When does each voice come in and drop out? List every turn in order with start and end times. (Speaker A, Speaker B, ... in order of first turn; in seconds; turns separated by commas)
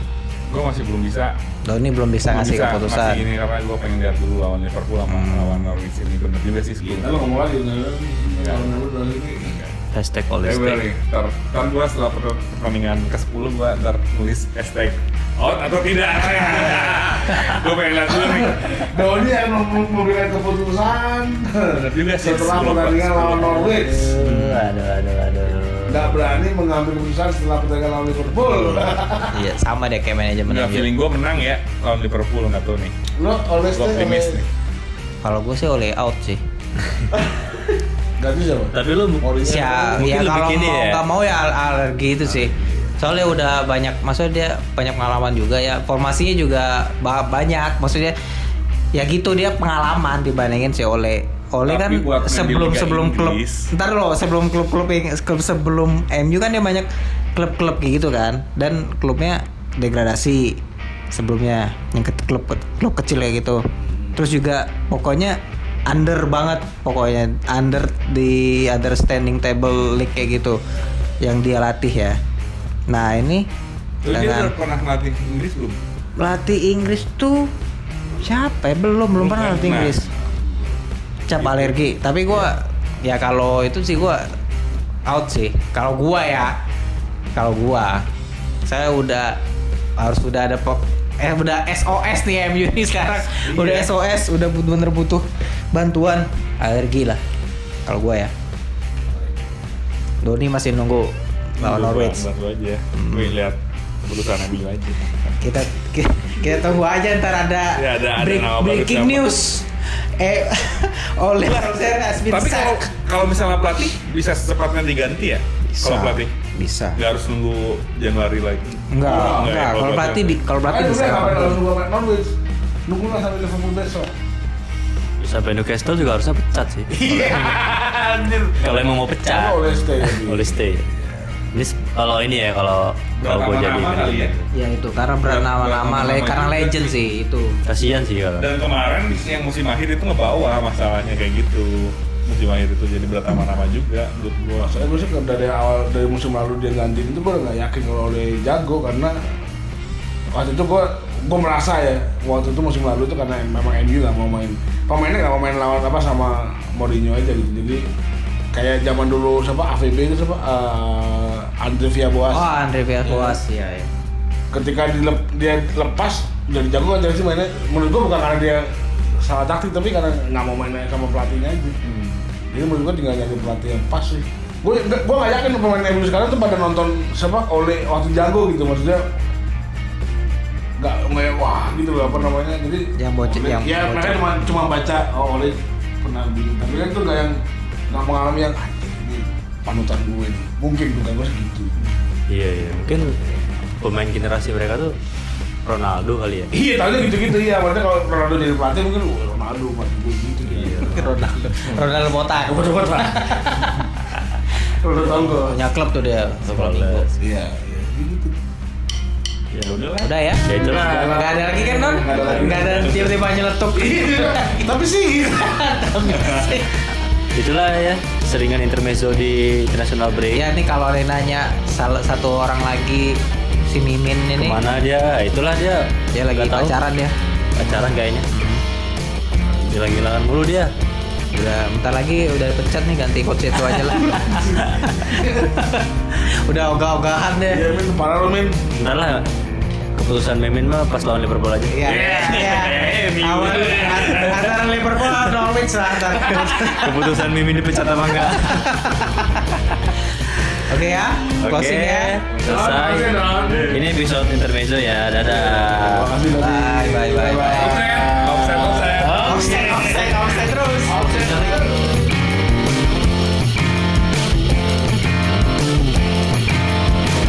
Speaker A: 0.5-1.3, Speaker B: 1.6-3.2, Speaker A: 2.3-7.1, Speaker B: 5.1-5.8, Speaker C: 6.8-9.6, Speaker A: 8.4-8.7, Speaker A: 9.4-9.7, Speaker D: 9.9-10.9, Speaker A: 10.4-19.0, Speaker C: 16.7-17.5, Speaker C: 18.1-24.5, Speaker A: 21.9-23.6, Speaker D: 23.7-26.5, Speaker C: 25.9-29.5, Speaker B: 29.3-30.9, Speaker A: 30.5-32.9, Speaker C: 33.2-34.4, Speaker A: 33.7-34.5, Speaker B: 35.2-36.4, Speaker C: 38.2-40.1, Speaker D: 38.7-39.3, Speaker B: 39.4-48.2, Speaker D: 39.9-41.0, Speaker B: 48.9-60.6, Speaker A: 51.6-53.7, Speaker B: 61.1-63.6, Speaker B: 64.2-70.6, Speaker B: 71.2-72.2, Speaker B: 72.9-73.5, Speaker A: 74.0-75.8, Speaker B: 74.1-74.5, Speaker B: 76.2-77.5, Speaker B: 78.2-80.1, Speaker A: 79.2-80.1, Speaker B: 81.3-84.3, Speaker A: 81.3-81.8, Speaker B: 85.1-86.5, Speaker B: 87.4-88.1, Speaker B: 88.7-89.4, Speaker B: 90.0-97.2, Speaker A: 93.4-93.9, Speaker B: 97.9-98.3, Speaker B: 100.2-102.3, Speaker A: 101.6-105.1, Speaker B: 102.9-103.3, Speaker B: 105.4-112.9, Speaker A: 107.8-109.4, Speaker A: 111.5-116.3, Speaker B: 115.7-117.0, Speaker A: 117.0-120.4, Speaker B: 118.9-121.6, Speaker C: 119.1-119.5, Speaker C: 120.7-122.3, Speaker C: 122.9-124.1, Speaker D: 125.2-127.5, Speaker C: 126.9-131.1, Speaker D: 128.6-130.9, Speaker D: 131.5-134.5, Speaker A: 133.2-134.4, Speaker B: 134.5-137.6, Speaker A: 135.2-137.0, Speaker D: 137.7-138.5, Speaker A: 138.4-144.7, Speaker C: 144.6-149.2, Speaker C: 150.3-157.9, Speaker C: 158.5-162.5, Speaker B: 162.3-163.9, Speaker C: 164.5-171.8, Speaker A: 171.8-172.2, Speaker C: 172.5-179.1, Speaker C: 180.8-187.4, Speaker B: 183.0-184.6, Speaker C: 187.9-191.8, Speaker D: 192.3-195.0, Speaker D: 195.7-196.5, Speaker C: 196.5-201.1, Speaker D: 200.5-201.1, Speaker B: 200.8-203.8, Speaker C: 202.5-203.3, Speaker C: 204.8-205.6, Speaker B: 205.1-207.1, Speaker D: 206.4-207.1, Speaker C: 207.2-208.4, Speaker D: 209.5-211.2, Speaker A: 209.8-210.1, Speaker B: 210.0-214.8, Speaker C: 210.6-213.1, Speaker A: 212.2-213.2, Speaker C: 213.7-216.2, Speaker B: 215.3-216.8, Speaker D: 217.3-220.5, Speaker B: 220.3-224.6, Speaker D: 224.4-226.8, Speaker B: 226.1-227.2, Speaker D: 227.6-228.3, Speaker B: 228.3-228.6, Speaker D: 229.7-230.7, Speaker B: 231.3-237.7, Speaker C: 234.2-235.5, Speaker C: 237.5-238.6, Speaker D: 238.8-239.3, Speaker D: 240.0-244.5, Speaker B: 241.7-247.1, Speaker C: 241.9-242.5, Speaker A: 242.4-244.4, Speaker D: 246.1-248.7, Speaker B: 248.1-249.4, Speaker B: 250.7-252.2, Speaker D: 251.4-256.1, Speaker C: 252.4-253.8, Speaker C: 255.2-260.1, Speaker B: 256.4-257.8, Speaker A: 257.5-259.5, Speaker D: 259.0-260.0, Speaker B: 259.1-261.6, Speaker C: 260.9-261.9, Speaker D: 261.1-261.6